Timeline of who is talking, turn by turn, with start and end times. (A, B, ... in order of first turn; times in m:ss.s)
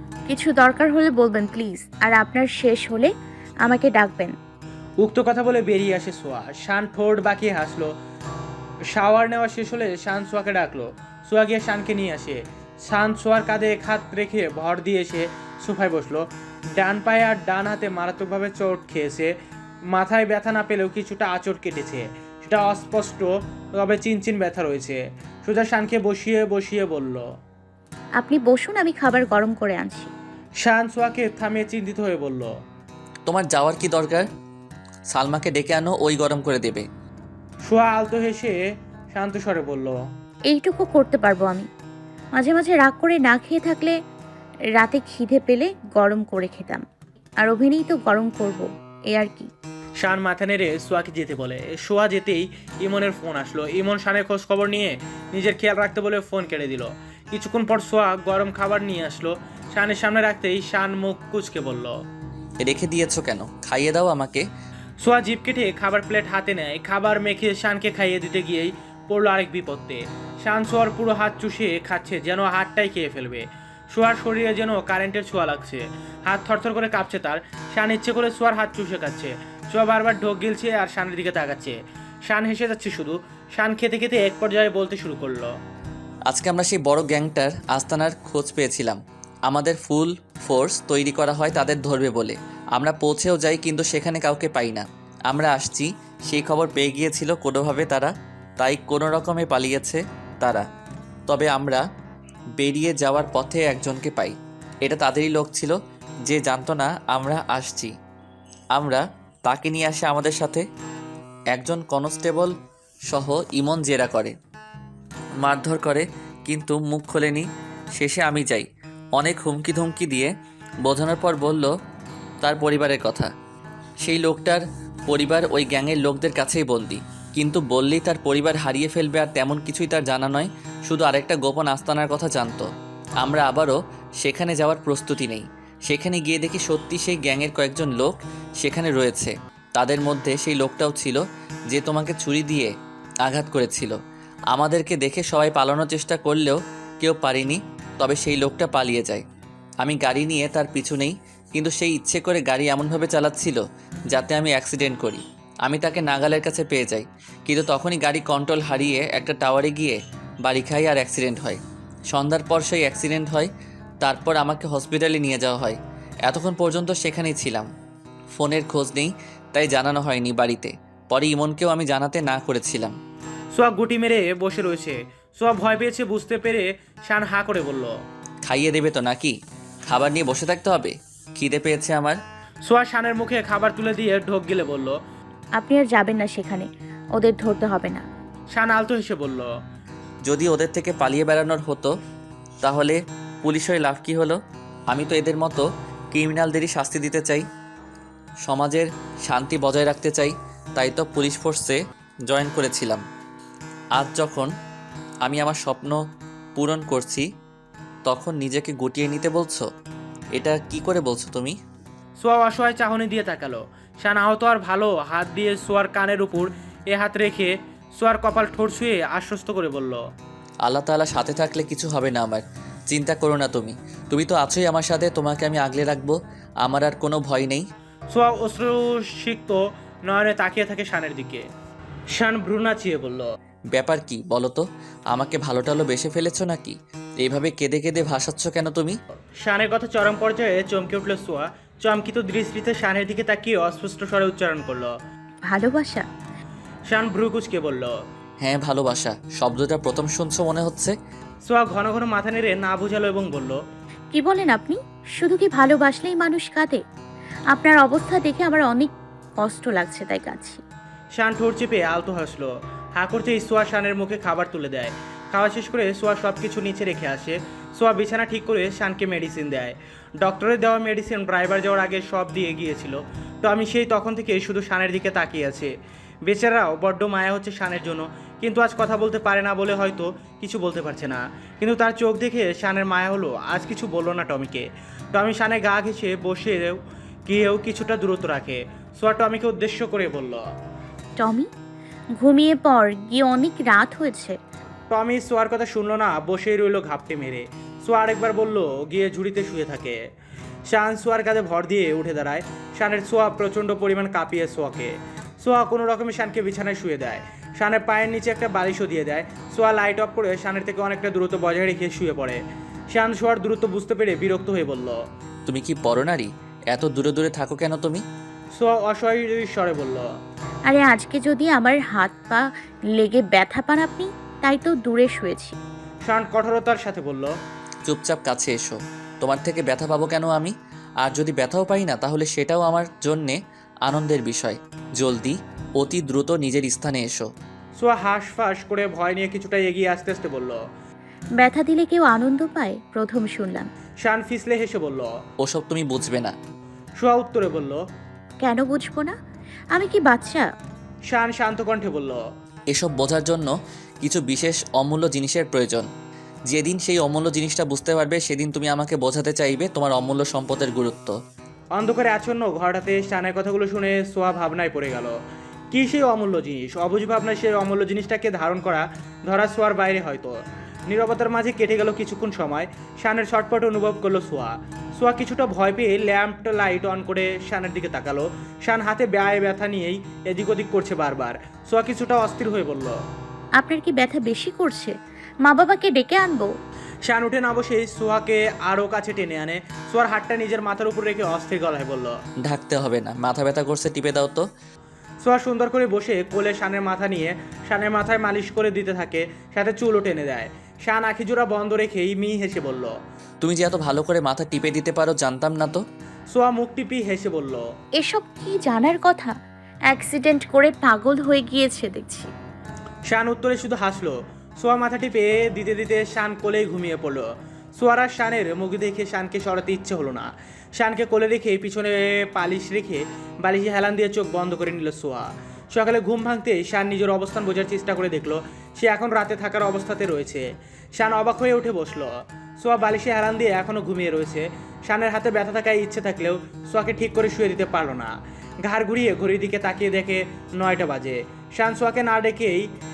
0:00.3-0:03.1 A
0:03.6-0:04.3 A
0:05.0-0:07.9 B
0:08.9-0:16.2 B
0:16.8-0:19.3 B
0:19.9-0:27.2 B
0:28.2-0:30.1 A
0:30.6-0:32.5 B
0:33.2-0:34.3 C
0:35.1-0:36.8 C
0:37.6-0:38.6 B
0:39.1-0:40.0 B
0:40.5-0:41.7 A
0:42.4-0:43.9 A
0:44.8-0:46.8 A
0:47.4-0:49.5 A
0:50.0-1:01.9 B
1:02.6-1:04.4 C
1:05.0-1:21.8 B
1:22.3-1:25.5 B
1:26.3-1:40.6 C
1:41.3-1:41.8 C
1:42.6-1:45.7 C
1:46.3-1:47.9 C
1:48.7-1:50.6 C
1:51.5-1:52.5 C
1:53.1-1:54.3 C
1:55.4-2:00.3 C
2:00.8-2:01.7 C
2:02.4-2:03.3 C
2:04.0-2:12.6 C
2:13.2-2:22.7 C
2:23.2-2:24.0 C
2:24.5-2:29.2 C
2:29.8-2:43.5 C
2:44.0-2:47.7 C
2:48.4-2:52.9 C
2:53.5-2:57.9 B
2:58.4-2:59.3 C
2:59.9-3:02.2 C
3:02.7-3:05.0 B
3:05.6-3:08.0 A
3:08.5-3:09.5 B
3:10.2-3:11.9 C
3:12.6-3:14.4 C
3:14.9-3:17.4 C
3:18.4-3:23.0 C
3:24.0-3:24.5 C
3:25.2-3:26.0 C
3:26.6-3:27.2 C
3:28.0-3:29.6 C
3:30.3-3:31.6 C
3:32.2-3:40.0 B
3:40.6-3:47.6 C
3:48.1-3:51.4 B
3:52.1-3:53.2 B
3:53.7-3:59.0 C
3:59.4-4:04.9 B
4:05.5-4:06.0 A
4:06.9-4:07.9 B
4:08.4-4:10.9 C
4:11.5-4:13.6 B
4:14.1-4:16.8 A
4:17.5-4:20.6 A
4:21.2-4:35.7 B
4:36.3-4:50.4 B
4:51.2-4:51.5 A
4:52.2-4:54.4 A
4:54.9-5:00.0 B
5:00.7-5:12.4 B
5:12.9-5:15.0 B
5:15.4-5:18.0 C
5:18.6-5:20.0 B
5:20.7-5:22.4 A
5:23.0-5:25.6 A
5:26.0-5:27.3 B
5:27.8-5:37.3 C
5:37.8-5:40.6 B
5:41.4-5:43.7 A
5:44.0-5:45.1 B
5:45.4-5:46.3 C
5:47.0-5:47.8 B
5:48.4-5:49.2 A
5:49.7-5:50.5 A
5:51.1-5:52.2 B
5:52.7-5:53.5 C
5:54.0-5:55.9 C
5:56.5-6:01.1 C
6:01.7-6:05.1 B
6:05.7-6:10.3 B
6:10.9-6:23.0 B
6:23.6-6:24.9 A
6:25.4-6:26.5 A
6:27.0-6:32.1 B
6:32.4-6:34.4 C
6:35.2-6:42.9 B
6:43.4-6:45.8 C
6:46.3-6:47.6 B
6:48.0-6:49.3 A
6:49.9-6:52.3 A
6:53.1-6:57.3 B
6:57.8-7:18.1 B
7:18.6-7:22.7 B